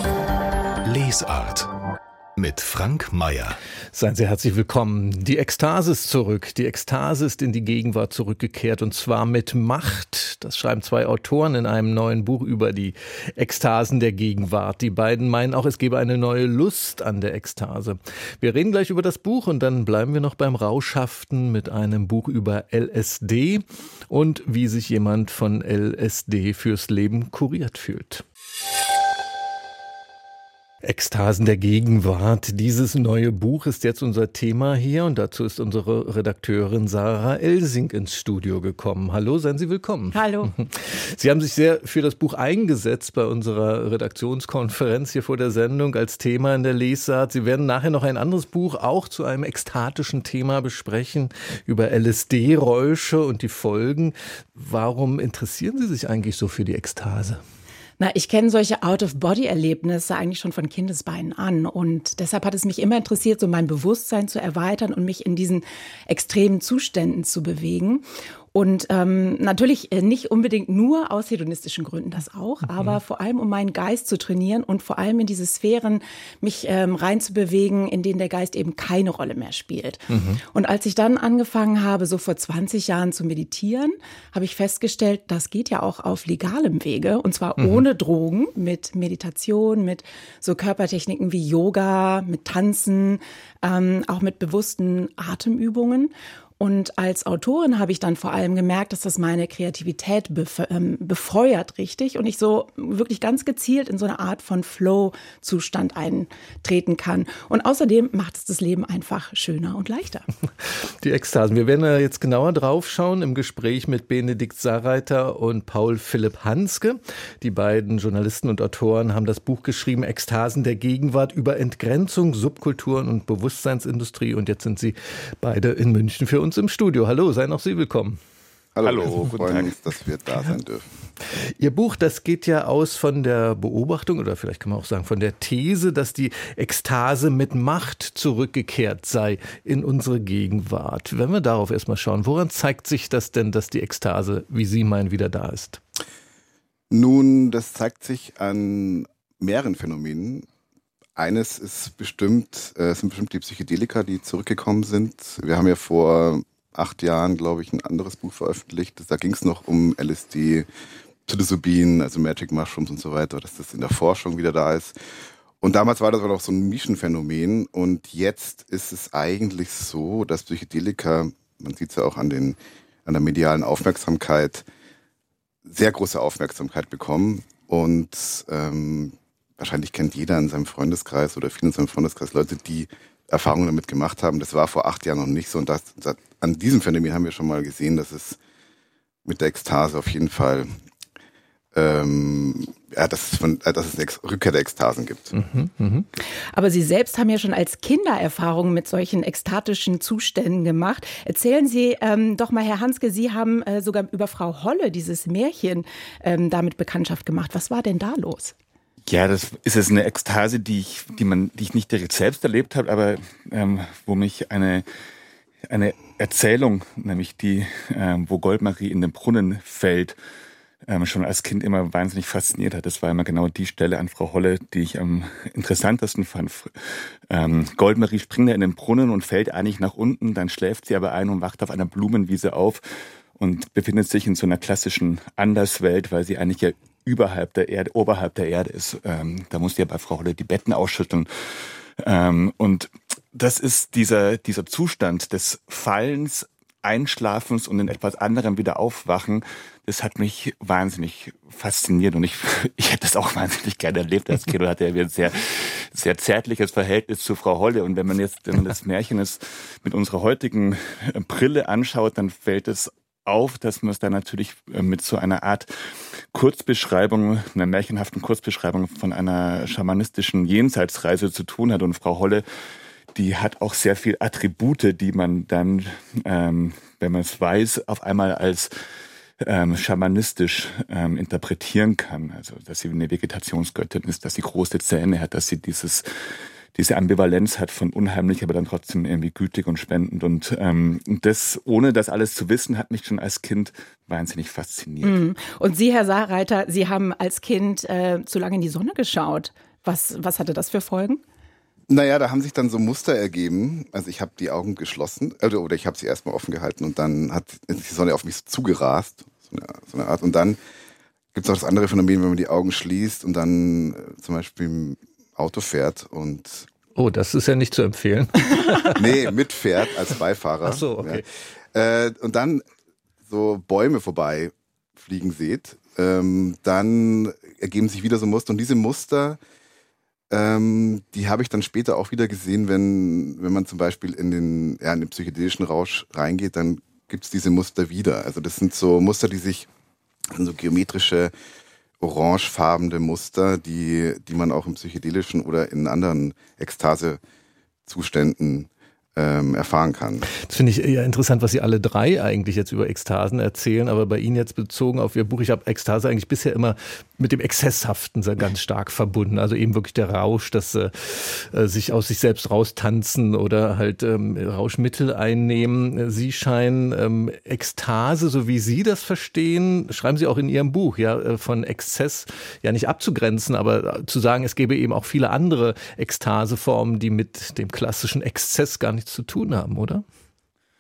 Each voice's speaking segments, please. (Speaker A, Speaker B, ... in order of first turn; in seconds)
Speaker A: 0.8-1.7, 2.4-3.6
Speaker B: 3.9-28.2, 30.8-57.4, 72.7-73.0, 80.1-80.4, 87.6-87.8, 111.0-128.2, 131.3-145.8, 195.3-196.1, 317.0-319.0, 320.6-321.2, 350.3-380.1
Speaker C: 40.1-40.5, 58.0-110.3, 196.5-208.5, 295.0-301.2
Speaker D: 128.8-130.9, 146.9-150.5, 151.2-160.7, 161.3-165.0, 165.6-174.7, 175.7-188.4, 189.2-190.7, 191.7-195.3, 301.9-310.6, 311.3-316.7, 318.9-322.6, 323.3-329.4, 330.3-339.7, 340.3-341.3, 342.0-347.2, 347.9-350.3
Speaker E: 128.8-129.7, 209.1-214.8, 215.7-220.2, 220.8-232.9, 233.4-265.7, 266.3-272.4, 273.1-278.7, 279.4-295.2